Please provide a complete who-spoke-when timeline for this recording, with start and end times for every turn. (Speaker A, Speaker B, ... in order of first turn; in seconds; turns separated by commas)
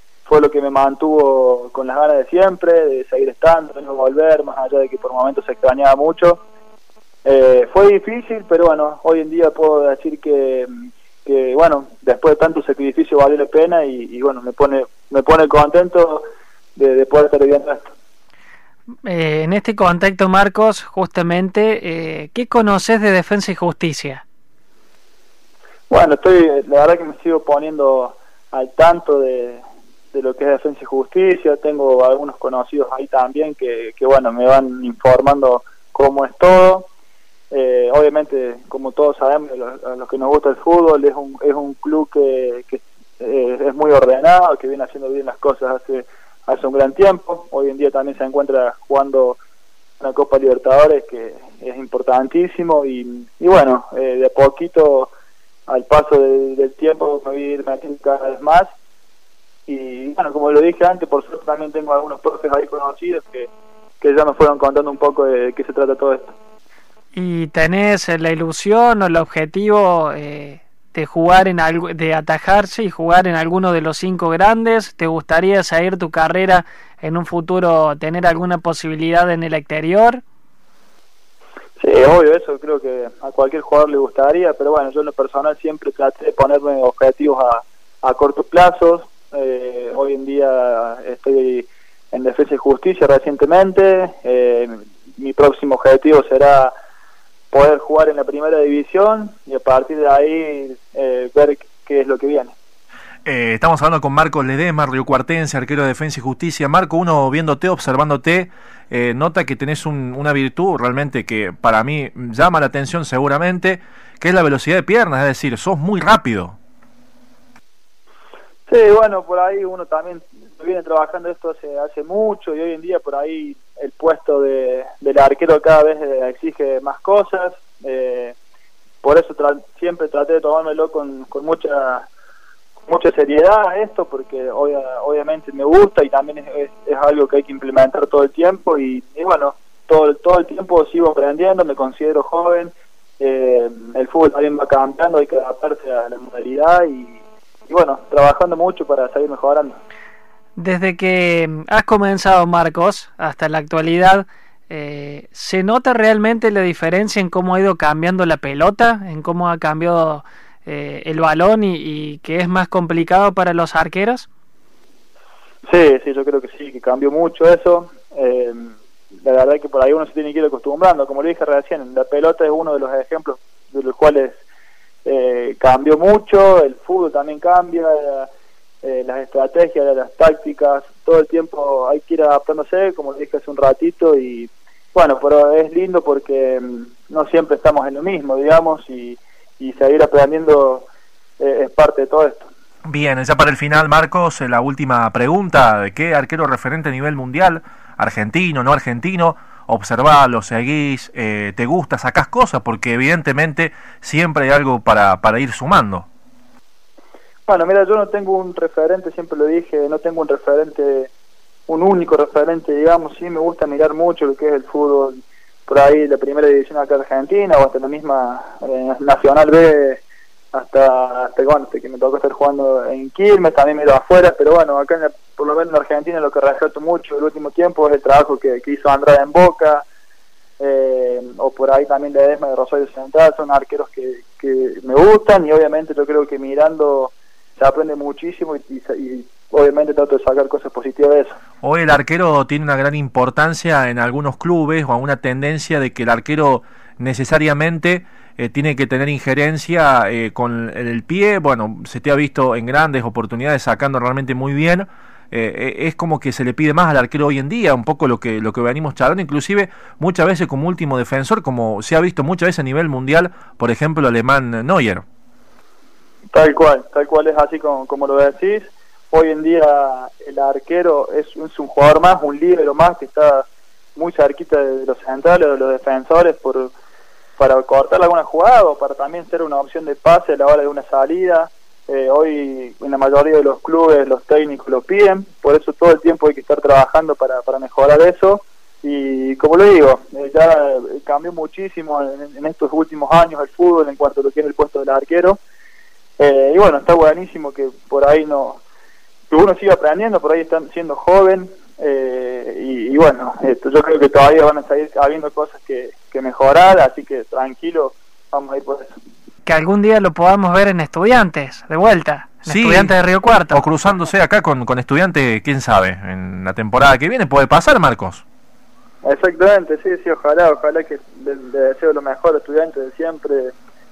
Speaker A: 0.2-6.4, Speaker A: 7.2-10.7, Speaker A: 11.2-16.2, Speaker A: 16.8-17.9, Speaker B: 19.1-24.2, Speaker A: 25.9-36.9, Speaker A: 37.5-49.4, Speaker A: 50.0-55.1, Speaker A: 55.7-58.7, Speaker A: 59.7-66.3, Speaker B: 67.1-80.2, Speaker A: 81.8-96.7, Speaker A: 97.5-102.5, Speaker C: 103.3-116.6, Speaker A: 118.7-128.4, Speaker A: 129.0-132.1, Speaker A: 132.8-149.8, Speaker B: 150.6-164.3, Speaker A: 165.7-174.4, Speaker A: 175.1-178.3, Speaker A: 178.8-192.5, Speaker C: 192.9-206.1, Speaker A: 207.5-211.1, Speaker A: 211.7-220.0, Speaker A: 220.5-229.8, Speaker A: 230.6-241.4, Speaker C: 241.6-265.0, Speaker A: 266.3-276.7, Speaker A: 277.4-295.4, Speaker A: 296.2-298.6, Speaker A: 299.3-309.0, Speaker B: 309.5-313.6, Speaker C: 312.5-313.0, Speaker C: 313.5-318.2, Speaker A: 319.0-323.6